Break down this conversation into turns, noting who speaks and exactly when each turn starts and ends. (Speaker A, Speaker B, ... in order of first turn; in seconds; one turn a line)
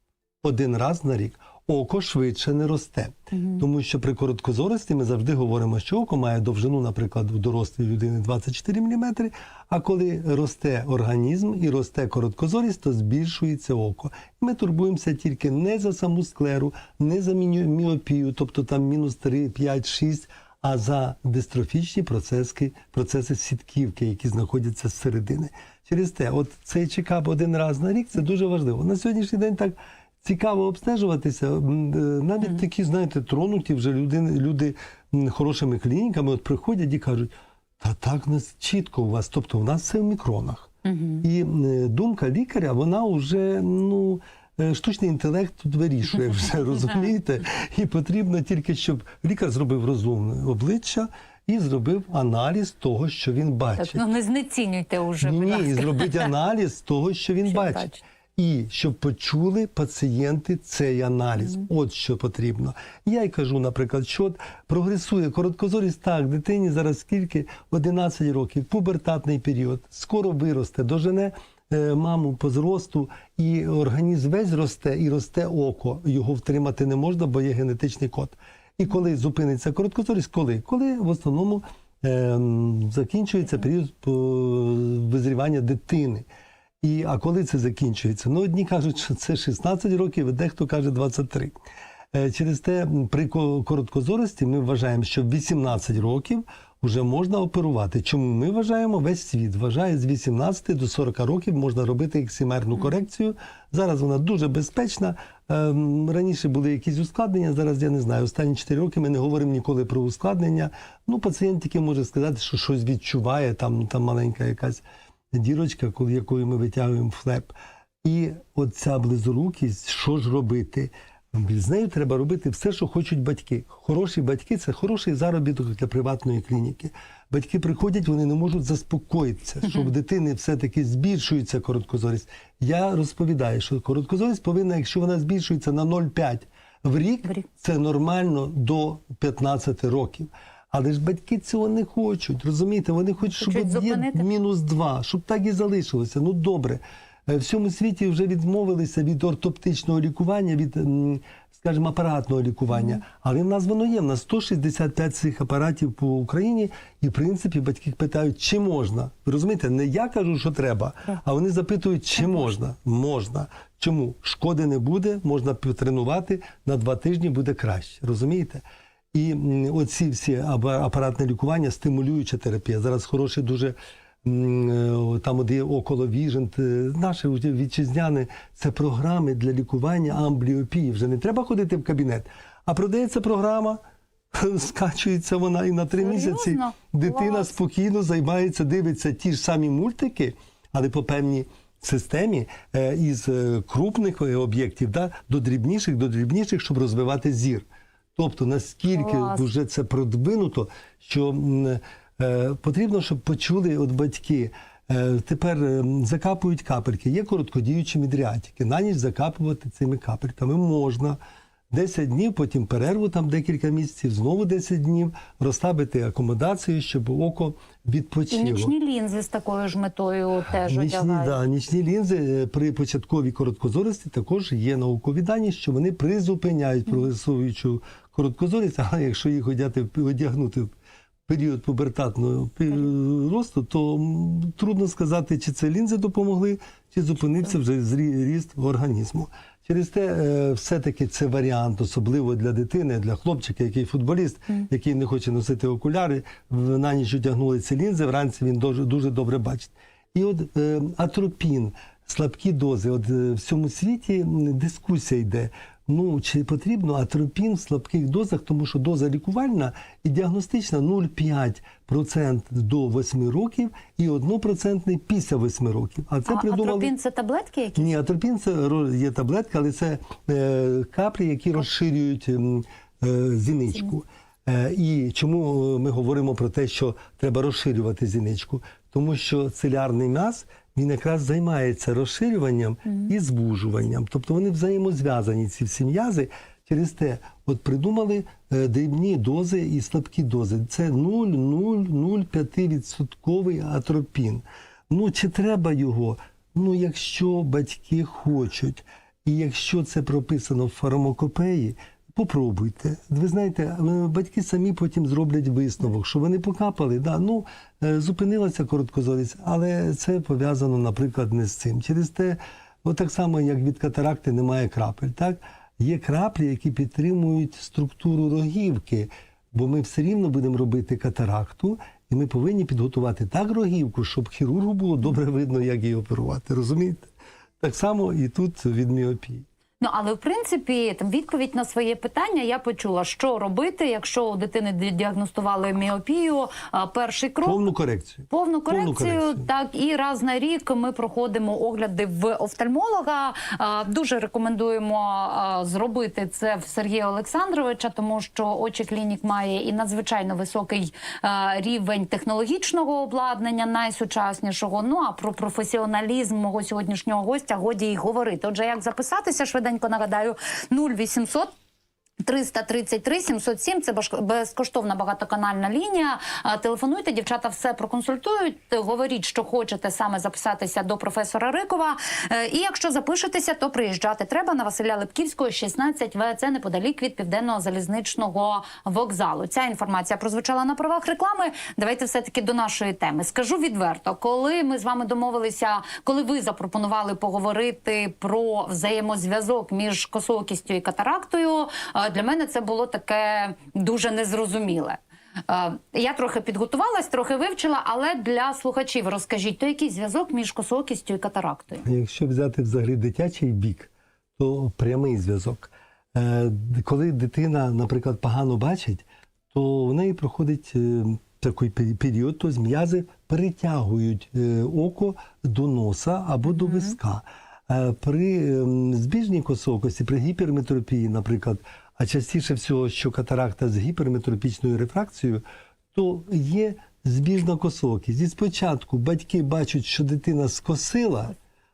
Speaker A: 0.4-54.0
Speaker B: 3.3-3.6
Speaker B: 40.8-41.2
Speaker B: 53.8-56.2
Speaker A: 55.2-86.2
Speaker B: 57.5-58.0
Speaker A: 86.8-91.6
Speaker A: 92.1-117.5
Speaker A: 118.0-183.8
Speaker B: 143.4-144.2
Speaker A: 184.3-211.2
Speaker B: 186.0-187.5
Speaker B: 198.9-199.4
Speaker A: 211.7-218.7
Speaker B: 218.3-221.4
Speaker A: 220.7-230.7
Speaker A: 231.3-266.9
Speaker B: 266.3-267.9
Speaker A: 267.8-329.4
Speaker B: 329.8-337.6
Speaker A: 337.4-339.5
Speaker B: 338.3-361.5
Speaker B: 362.2-401.9
Speaker A: 401.8-425.4
Speaker A: 425.9-431.4